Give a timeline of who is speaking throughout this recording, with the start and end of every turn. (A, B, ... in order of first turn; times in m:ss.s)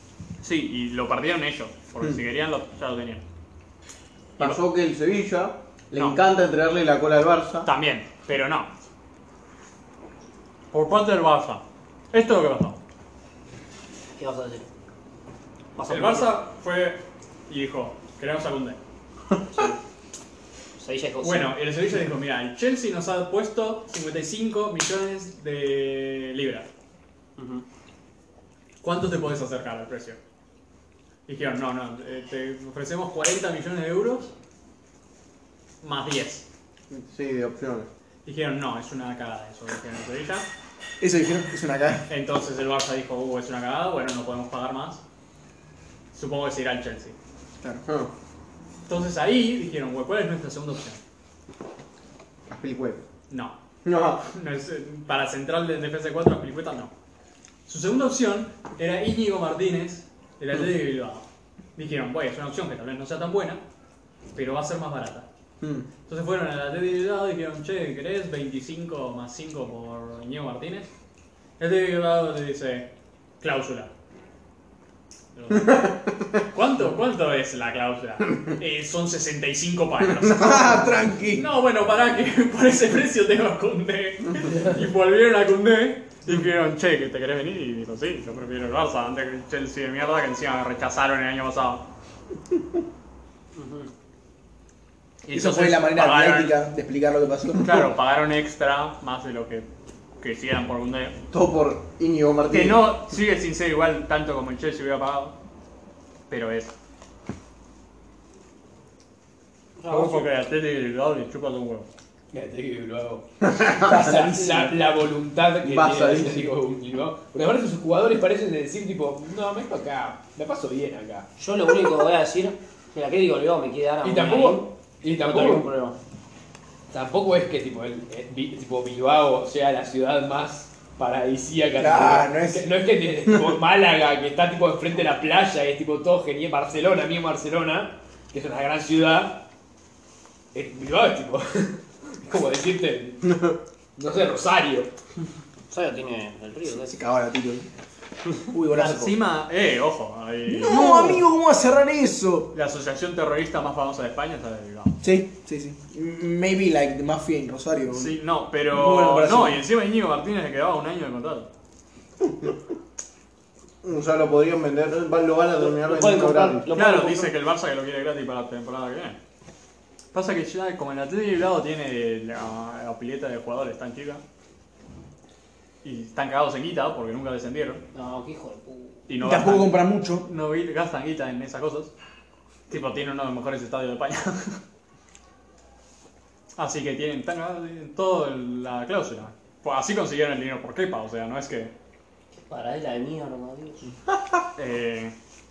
0:00.4-0:03.2 A
0:04.4-0:07.7 B
0:06.0-0:06.2 A
0:07.6-0:08.7 A
0:10.7-0:12.8 A
0:14.2-0:14.7 C
0:15.8-0:16.3 C
0:15.9-0:18.8 A
0:19.5-0:19.8 C
0:20.8-0:21.5 C
0:21.2-0:26.7 A
0:27.4-0:27.6 C
0:28.8-0:30.2 A
0:31.3-0:34.3 A
0:35.8-0:36.5 A
0:36.9-0:37.9 B
0:38.2-0:40.5 A
0:41.0-0:42.1 D
0:42.1-0:45.0 A
0:46.1-0:47.2 A
0:47.8-0:48.1 B
0:48.9-0:51.0 A
0:52.5-0:53.0 B
0:53.3-0:53.6 A
0:53.8-0:54.3 B
0:54.2-0:56.9 A
0:57.7-1:03.6 A
1:04.3-1:05.3 A
1:05.6-1:05.9 B
1:06.1-1:10.9 A
1:11.6-1:12.9 A
1:13.4-1:13.9 A
1:15.4-1:31.8 A
1:15.6-1:15.9 B
1:20.3-1:21.4 D
1:33.6-1:33.9 C
1:35.3-1:36.6 A
1:35.3-1:37.9 D
1:37.6-1:39.7 A
1:40.2-1:41.2 A
1:41.3-1:43.0 B
1:42.5-1:45.4 A
1:46.3-1:46.7 A
1:49.8-1:50.3 C
1:49.9-1:51.9 A
1:52.3-2:01.3 E
1:53.5-1:54.1 B
1:53.9-1:54.7 D
1:55.6-1:56.5 B
2:01.4-2:04.7 C
2:04.0-2:05.7 E
2:05.2-2:06.0 C
2:06.9-2:19.4 E
2:11.8-2:12.6 D
2:20.5-2:23.3 E
2:23.2-2:23.6 B
2:24.0-2:24.9 E
2:25.7-2:27.0 C
2:26.8-2:27.7 D
2:28.5-2:29.2 D
2:28.7-2:31.3 A
2:30.5-2:32.5 D
2:32.5-2:35.0 A
2:35.0-2:38.2 D
2:37.9-2:41.5 A
2:38.7-2:39.6 D
2:43.8-2:46.7 B
2:45.6-2:47.3 C
2:46.7-2:49.2 A
2:50.1-2:54.2 A
2:55.8-2:57.8 A
2:57.9-2:59.0 C
2:59.1-3:01.9 A
2:59.2-3:00.3 D
3:02.7-3:04.6 A
3:06.6-3:11.7 A
3:12.5-3:13.9 C
3:14.1-3:14.4 B
3:14.6-3:15.1 A